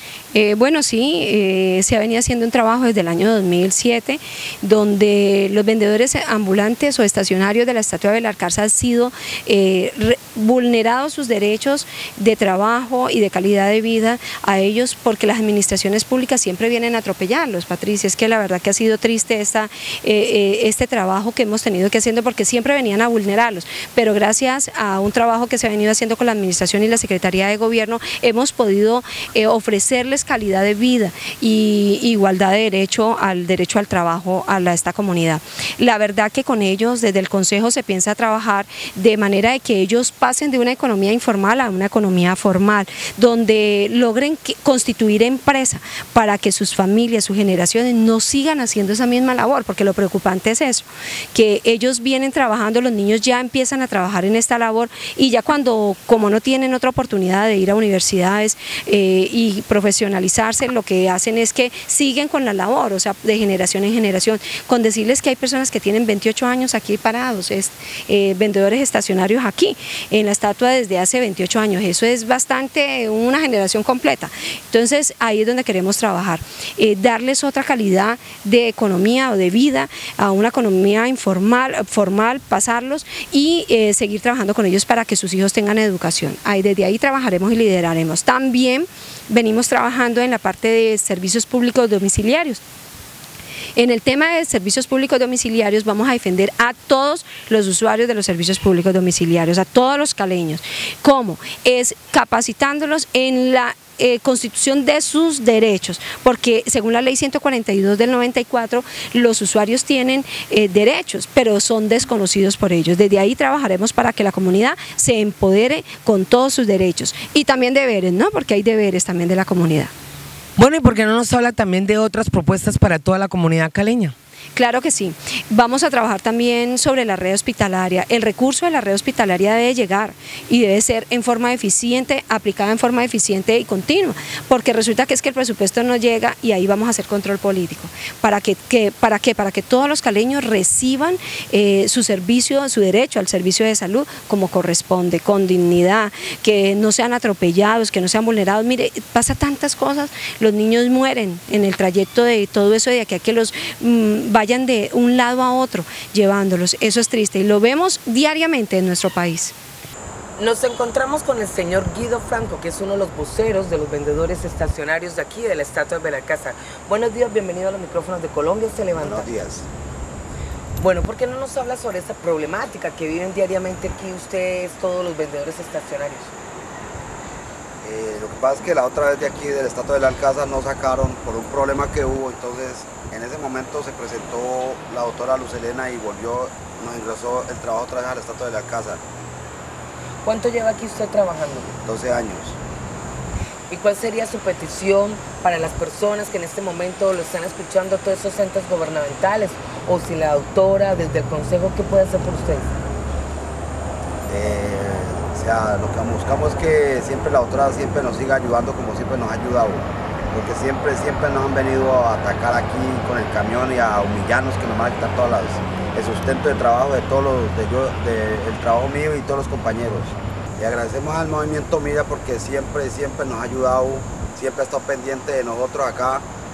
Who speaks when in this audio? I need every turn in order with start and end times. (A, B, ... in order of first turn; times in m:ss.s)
0:00.3-1:32.6 A
1:33.8-1:59.9 A
2:00.6-2:04.2 B
2:04.6-2:39.5 A
2:40.4-2:49.3 B
2:49.0-2:49.7 C
2:50.8-2:56.3 B
2:57.8-3:09.0 C
3:10.2-3:11.7 B
3:11.8-3:12.6 C
3:13.7-3:22.7 B
3:24.3-3:46.2 C